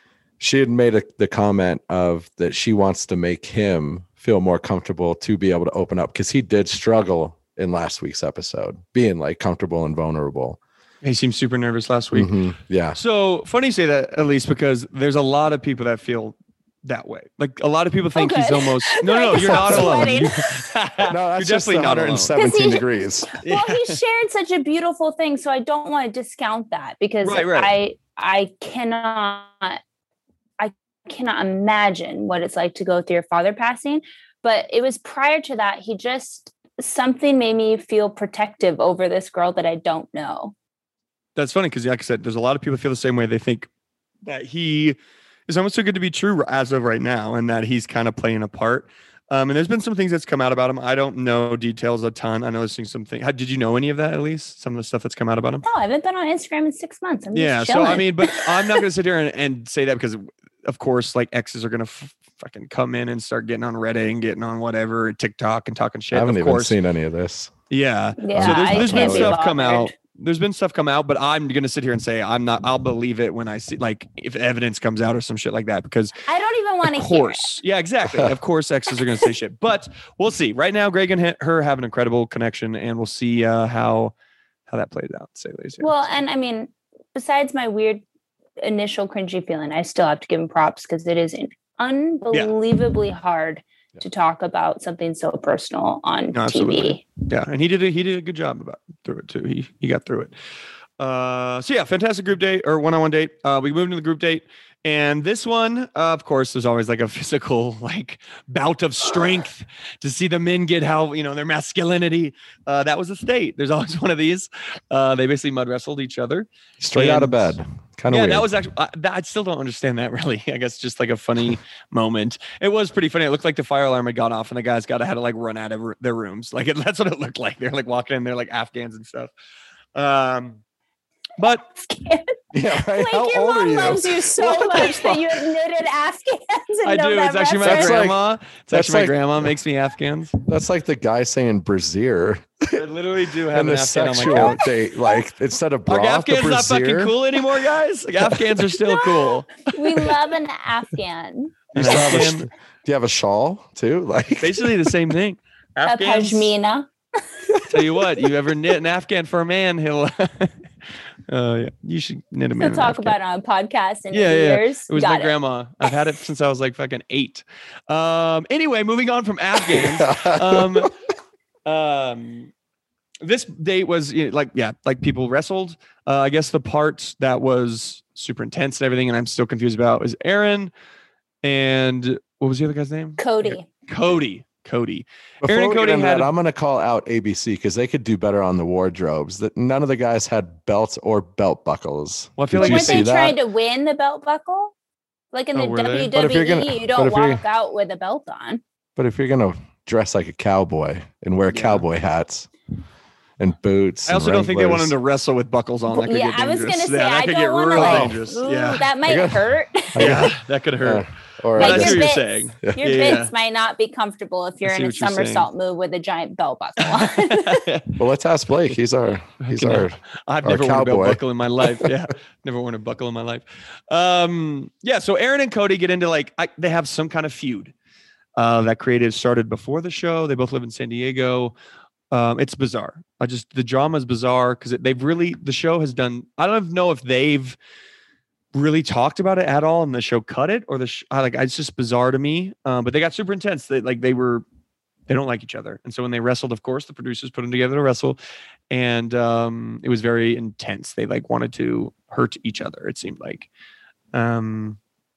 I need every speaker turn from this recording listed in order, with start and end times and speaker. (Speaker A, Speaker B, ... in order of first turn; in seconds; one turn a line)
Speaker A: 0.4-10.6
Speaker B: 11.0-12.4
Speaker A: 12.1-13.0
Speaker B: 12.9-22.3
Speaker C: 18.1-20.7
Speaker A: 19.4-20.2
Speaker A: 21.1-23.3
Speaker C: 22.3-29.8
Speaker B: 23.4-24.0
Speaker B: 27.2-27.7
Speaker C: 30.6-40.5
Speaker B: 41.4-43.7
Speaker B: 44.2-45.0
Speaker B: 45.5-55.6
Speaker C: 55.6-58.8
Speaker B: 57.3-66.8
Speaker A: 66.1-67.5
Speaker B: 67.7-76.2
Speaker C: 68.2-69.9
Speaker A: 68.3-69.4
Speaker C: 76.3-77.5
Speaker B: 76.8-84.1
Speaker B: 84.7-86.0
Speaker C: 85.8-88.0
Speaker C: 88.6-97.0
Speaker B: 96.3-100.3
Speaker B: 101.0-117.5
Speaker A: 116.8-118.5
Speaker B: 118.1-129.3
Speaker B: 129.9-130.6
Speaker B: 131.4-131.6
Speaker C: 131.5-138.0
Speaker A: 132.5-135.2
Speaker B: 136.8-140.3
Speaker A: 137.6-138.2
Speaker A: 138.7-139.5
Speaker A: 140.4-142.8
Speaker B: 142.7-144.6
Speaker A: 143.5-147.2
Speaker C: 144.4-145.2
Speaker B: 145.9-150.1
Speaker C: 148.9-151.6
Speaker B: 151.7-152.5
Speaker A: 151.7-154.9
Speaker B: 154.3-156.5
Speaker C: 155.8-156.9
Speaker A: 157.5-157.9
Speaker B: 157.7-163.1
Speaker C: 162.6-165.3
Speaker B: 164.1-170.9
Speaker A: 169.7-170.9
Speaker B: 171.7-172.5
Speaker B: 173.2-180.7
Speaker B: 181.4-186.3
Speaker C: 183.2-183.6
Speaker A: 185.4-193.4
Speaker B: 192.4-193.1
Speaker C: 192.5-194.7
Speaker C: 195.3-198.6
Speaker B: 195.5-196.1
Speaker A: 196.1-197.4
Speaker A: 198.9-202.5
Speaker B: 201.5-201.8
Speaker A: 203.4-204.9
Speaker B: 204.1-208.9
Speaker C: 205.9-210.2
Speaker A: 207.8-208.1
Speaker A: 209.0-210.3
Speaker B: 209.9-213.3
Speaker A: 210.8-212.1
Speaker C: 211.6-217.6
Speaker B: 214.6-215.5
Speaker B: 216.9-218.0
Speaker A: 218.0-221.9
Speaker B: 219.4-227.7
Speaker B: 228.4-231.5
Speaker B: 232.1-237.6
Speaker B: 238.5-244.4
Speaker B: 245.1-248.2
Speaker B: 248.7-253.5
Speaker B: 254.1-254.8